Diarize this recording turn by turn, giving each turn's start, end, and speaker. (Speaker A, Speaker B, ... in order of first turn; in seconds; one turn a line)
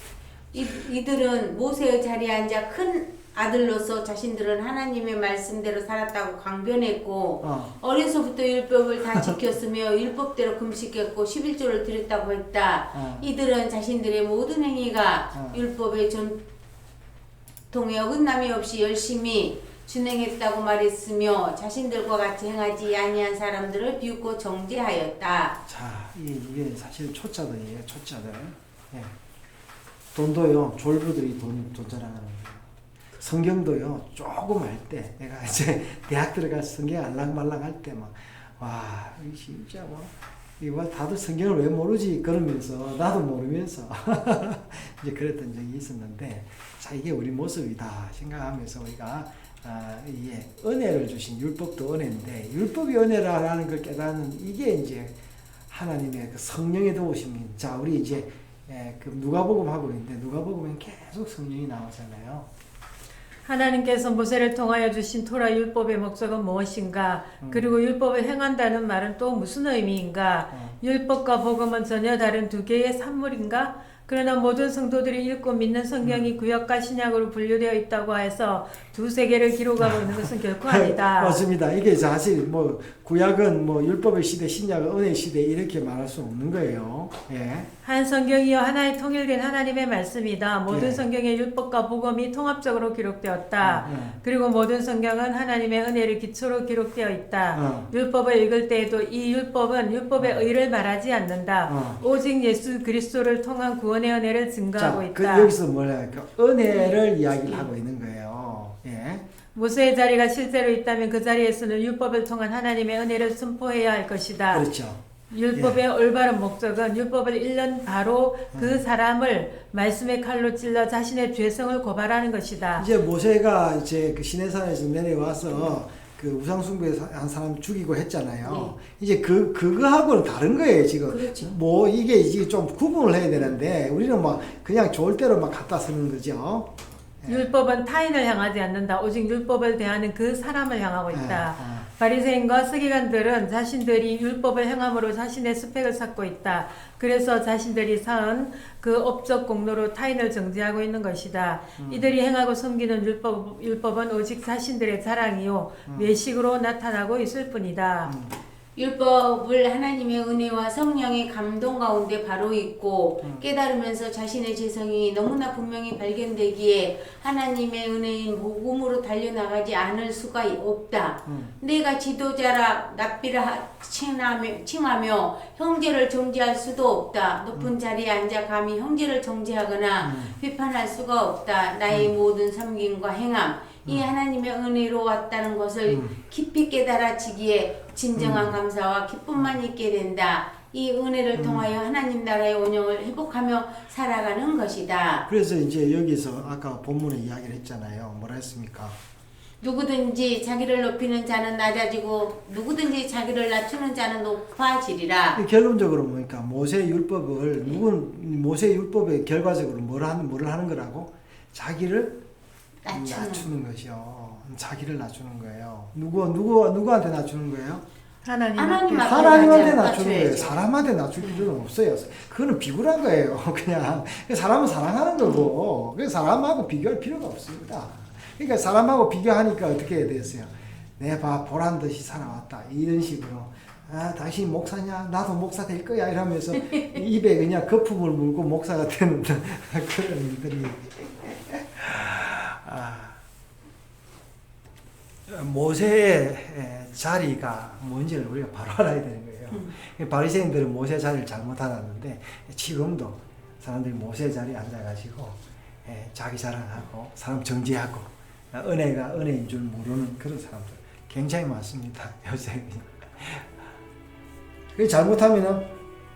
Speaker A: 0.5-16.4
Speaker B: 7.4-7.7
Speaker B: 12.9-13.3
Speaker B: 15.3-15.6
Speaker A: 17.7-25.6
Speaker B: 25.7-29.1
Speaker B: 30.1-55.1
Speaker B: 55.7-62.5
Speaker C: 63.5-81.4
Speaker B: 67.4-67.7
Speaker B: 70.5-70.8
Speaker B: 76.0-76.3
Speaker B: 79.8-87.7
Speaker C: 87.8-105.5
Speaker B: 90.7-91.0
Speaker B: 93.6-94.2
Speaker B: 97.5-97.9
Speaker B: 100.2-100.5
Speaker B: 101.7-102.0
Speaker B: 104.8-109.2
Speaker C: 109.5-114.7
Speaker B: 114.5-115.0
Speaker C: 115.3-122.9
Speaker B: 118.5-118.8
Speaker B: 122.8-136.7
Speaker A: 125.5-125.8
Speaker A: 128.4-128.8
Speaker A: 131.1-131.5
Speaker B: 137.2-137.5
Speaker C: 137.3-158.1
Speaker B: 141.1-141.9
Speaker B: 151.8-152.1
Speaker B: 158.1-158.3
Speaker A: 158.8-195.3
Speaker B: 171.3-171.5
Speaker B: 180.0-180.3
Speaker B: 185.9-186.2
Speaker B: 188.2-188.6
Speaker B: 191.3-191.7
Speaker B: 195.3-199.0
Speaker A: 199.6-205.4
Speaker B: 205.3-212.2
Speaker A: 212.8-213.5
Speaker B: 212.9-217.8
Speaker C: 218.2-219.8
Speaker A: 218.6-220.6
Speaker B: 218.9-243.2
Speaker A: 221.2-221.5
Speaker A: 225.2-225.5
Speaker A: 236.6-237.0
Speaker B: 245.3-263.5
Speaker B: 264.8-265.7